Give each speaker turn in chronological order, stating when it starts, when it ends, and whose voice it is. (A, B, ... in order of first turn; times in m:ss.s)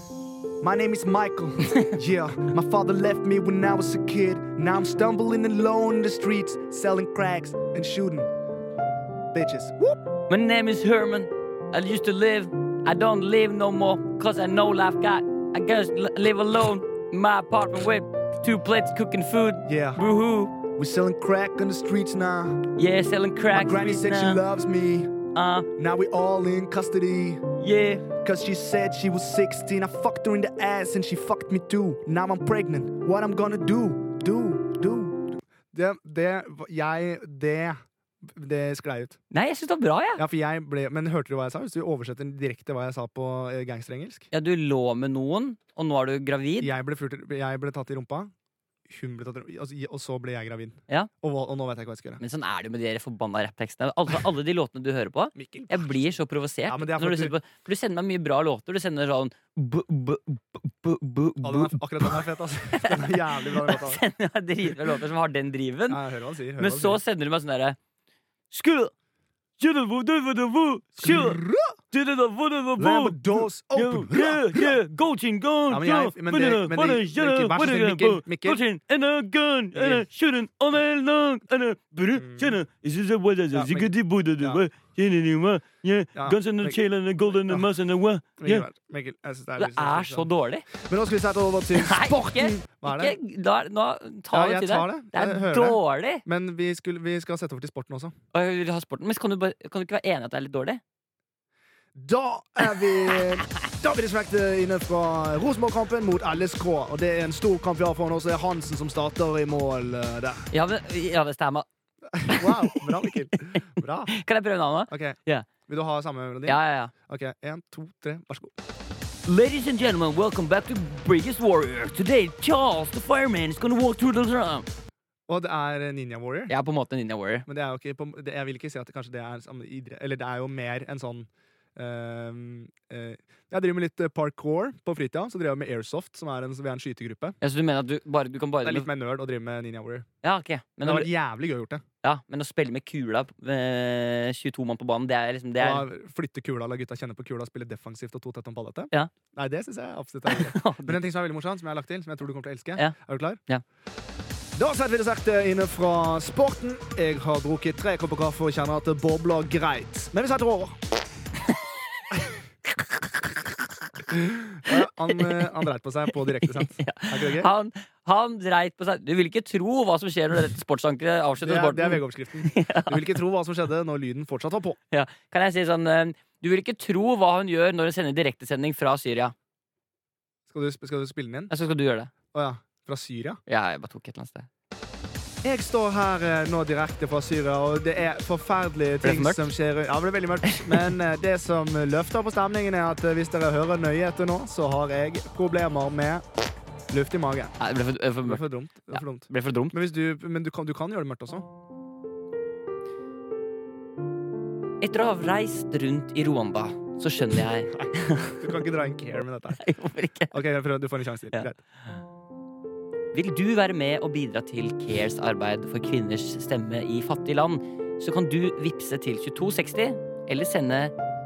0:00.6-0:08.3 A
0:09.3-0:10.0 A
0:10.3-0:20.6 B
0:19.6-0:20.0 A
0:20.7-0:22.7 A
0:22.8-0:24.4 B
0:23.5-0:25.1 A
0:25.3-0:25.7 B
0:25.8-0:27.5 A
0:27.6-0:28.1 B
0:28.1-0:39.2 A
0:39.3-0:40.2 B
0:40.2-0:44.3 A
0:44.3-0:46.7 B
0:46.6-0:48.3 A
0:48.9-0:52.2 A
0:52.2-1:02.1 B
0:55.3-0:57.3 A
1:01.4-1:04.0 A
1:02.7-1:06.0 B
1:05.9-1:07.0 A
1:06.6-1:07.8 B
1:08.5-1:08.9 B
1:09.6-1:11.4 B
1:11.0-1:11.8 A
1:11.9-1:28.7 B
1:12.8-1:14.8 A
1:15.7-1:18.6 A
1:19.7-1:20.0 A
1:22.1-1:22.6 A
1:23.5-1:24.6 A
1:26.1-1:26.8 A
1:28.4-1:33.2 A
1:29.6-1:30.7 B
1:31.7-1:36.2 B
1:34.3-1:38.1 A
1:38.3-1:40.8 B
1:41.9-1:50.5 A
1:50.5-1:51.7 B
1:52.1-1:54.1 A
1:52.2-1:53.6 B
1:54.1-1:55.5 B
1:54.9-1:58.5 A
1:56.4-1:56.9 B
1:59.2-2:04.7 B
2:05.3-2:06.5 A
2:06.5-2:07.5 B
2:07.5-2:17.4 A
2:17.4-2:18.9 B
2:18.6-2:20.1 A
2:20.2-2:21.1 B
2:20.8-2:21.8 A
2:22.0-2:25.9 B
2:25.6-2:33.4 A
2:30.3-2:31.0 B
2:34.6-2:40.8 A
2:44.1-2:47.5 A
2:44.6-2:45.5 B
2:46.3-2:53.1 B
2:51.4-2:54.8 A
2:54.9-2:59.3 B
3:00.5-3:01.5 A
3:01.5-3:02.1 B
3:02.3-3:03.4 A
3:03.5-3:04.5 B
3:05.4-3:16.2 A
3:09.0-3:09.5 B
3:10.4-3:10.9 B
3:16.9-3:17.5 A
3:17.6-3:19.7 B
3:18.2-3:21.5 A
3:24.8-3:28.6 B
3:27.7-3:29.6 A
3:29.6-3:30.4 B
3:30.3-3:31.6 A
3:33.1-3:40.9 B